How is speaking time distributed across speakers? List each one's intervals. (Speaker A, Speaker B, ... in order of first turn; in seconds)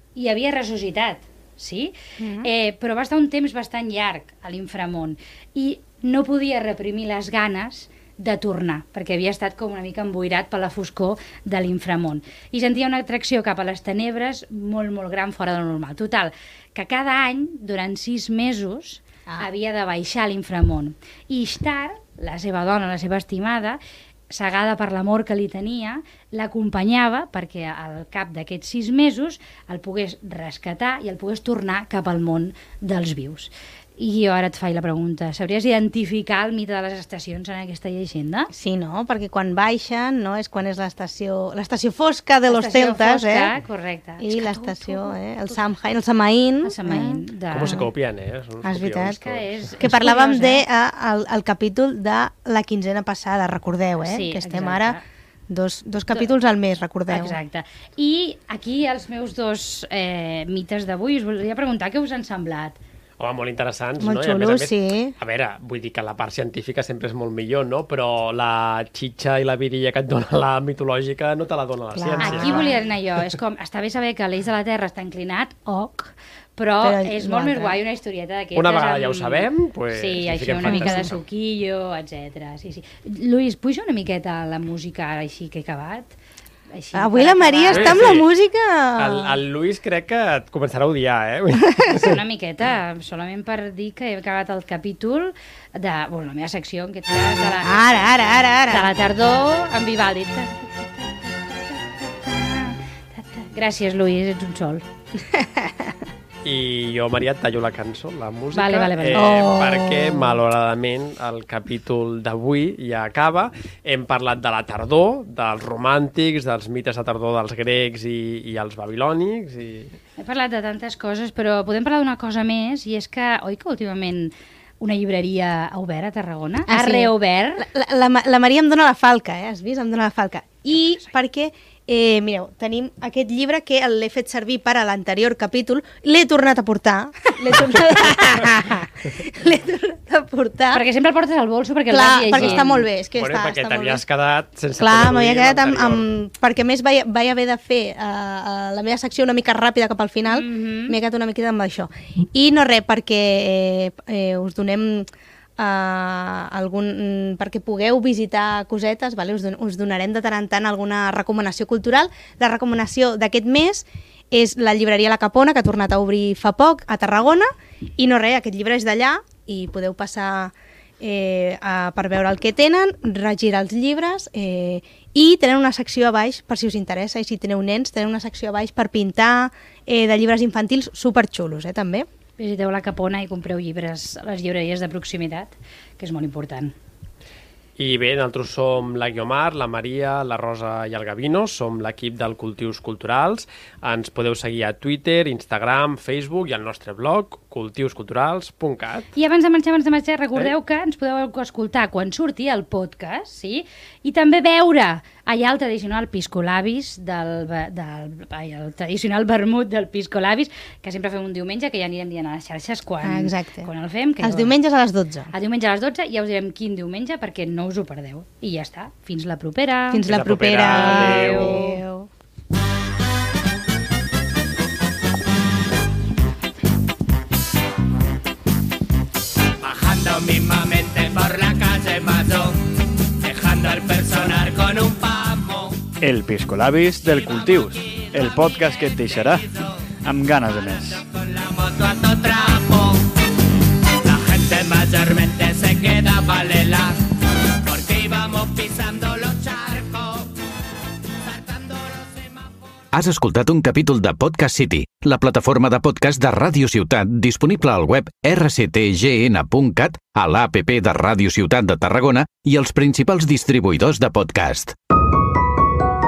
Speaker A: 0.1-38.5, 42.5-45.7, 46.6-47.9, 49.0-50.6, 54.0-55.0, 57.1-62.8, 72.2-86.1, 86.7-88.1, 91.8-104.8, 108.5-109.5, 120.2-127.7, 130.7-131.1, 140.7-142.8, 150.3-150.9, 182.4-186.8, 199.2-214.6, 215.3-220.1, 220.7-221.8
Speaker B: 2.2-2.5, 38.5-43.5, 44.2-47.9, 48.6-49.2, 49.8-55.0, 55.5-57.4, 64.0-65.2, 71.9-72.8, 76.8-77.8, 80.6-81.1, 86.9-89.4, 97.6-98.9, 105.3-106.0, 109.1-110.4, 126.7-140.8, 141.9-144.0, 144.8-182.1, 213.0-213.7, 214.2-215.3, 219.9-222.1
Speaker C: 47.5-49.7, 63.2-72.7, 78.5-81.2, 87.7-88.3, 89.0-92.2, 106.4-120.0, 142.3-146.1, 187.8-199.1, 220.1-221.6
Speaker D: 229.6-232.6, 233.2-235.9, 237.5-238.5, 239.2-239.7, 241.0-243.1, 244.0-247.0, 247.6-250.3, 251.2-252.8
Speaker E: 236.0-239.5, 240.1-241.0
Speaker F: 252.9-264.7